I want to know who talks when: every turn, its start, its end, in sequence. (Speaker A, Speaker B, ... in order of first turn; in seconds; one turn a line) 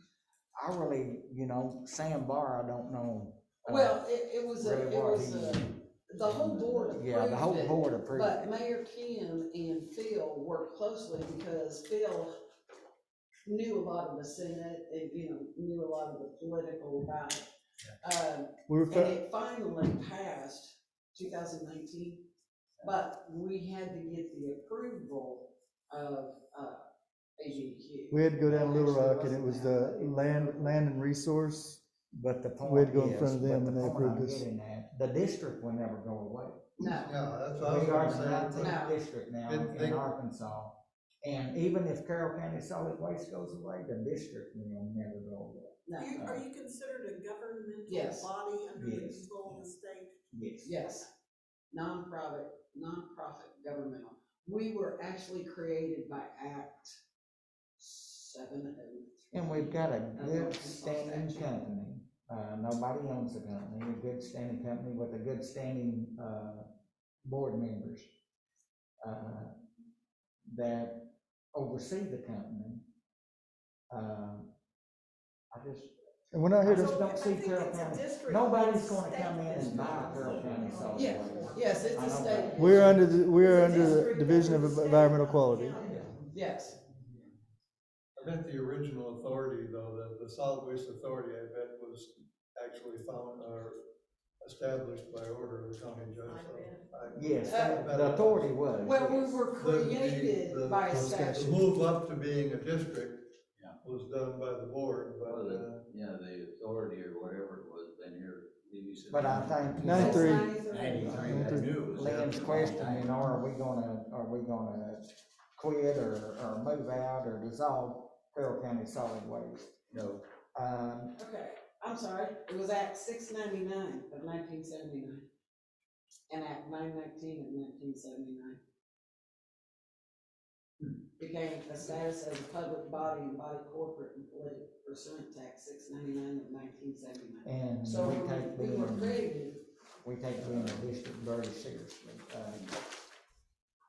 Speaker A: 0.6-4.0
Speaker B: 3.7-12.3
Speaker A: 4.6-5.7
Speaker C: 6.3-6.8
Speaker A: 6.3-8.5
Speaker B: 13.5-17.5
Speaker B: 18.0-22.2
Speaker D: 18.7-19.2
Speaker B: 22.8-26.8
Speaker B: 27.4-30.8
Speaker D: 28.1-31.8
Speaker A: 32.1-36.7
Speaker D: 32.6-34.4
Speaker B: 36.8-37.1
Speaker E: 37.0-38.7
Speaker A: 37.6-46.5
Speaker B: 38.5-39.0
Speaker E: 39.5-40.0
Speaker B: 45.9-46.2
Speaker F: 46.0-50.1
Speaker B: 47.9-48.3
Speaker A: 48.7-49.5
Speaker A: 50.3-50.8
Speaker B: 50.6-51.1
Speaker B: 51.7-57.0
Speaker B: 57.8-61.6
Speaker A: 59.3-66.7
Speaker A: 67.2-68.1
Speaker A: 69.0-69.5
Speaker A: 70.5-72.9
Speaker A: 73.9-74.5
Speaker A: 75.5-75.9
Speaker D: 76.3-76.8
Speaker A: 76.6-83.0
Speaker F: 76.7-82.8
Speaker C: 79.6-80.9
Speaker B: 80.9-83.0
Speaker D: 82.6-85.8
Speaker F: 83.3-86.0
Speaker A: 85.8-86.1
Speaker B: 86.3-86.8
Speaker E: 88.2-93.8
Speaker E: 94.4-98.5
Speaker F: 96.3-96.9
Speaker A: 97.1-99.4
Speaker B: 97.5-97.8
Speaker B: 98.8-101.6
Speaker E: 99.5-103.2
Speaker D: 100.9-101.6
Speaker E: 103.8-105.9
Speaker C: 105.2-109.9
Speaker A: 109.1-110.5
Speaker D: 109.8-110.4
Speaker B: 109.9-111.3
Speaker F: 110.4-111.0
Speaker C: 110.6-113.2
Speaker D: 111.2-111.7
Speaker A: 112.0-119.8
Speaker E: 112.0-112.3
Speaker C: 119.9-120.2
Speaker A: 120.5-121.1
Speaker B: 121.2-125.2
Speaker B: 126.3-128.6
Speaker B: 131.2-139.6
Speaker A: 137.4-139.2
Speaker A: 140.0-142.7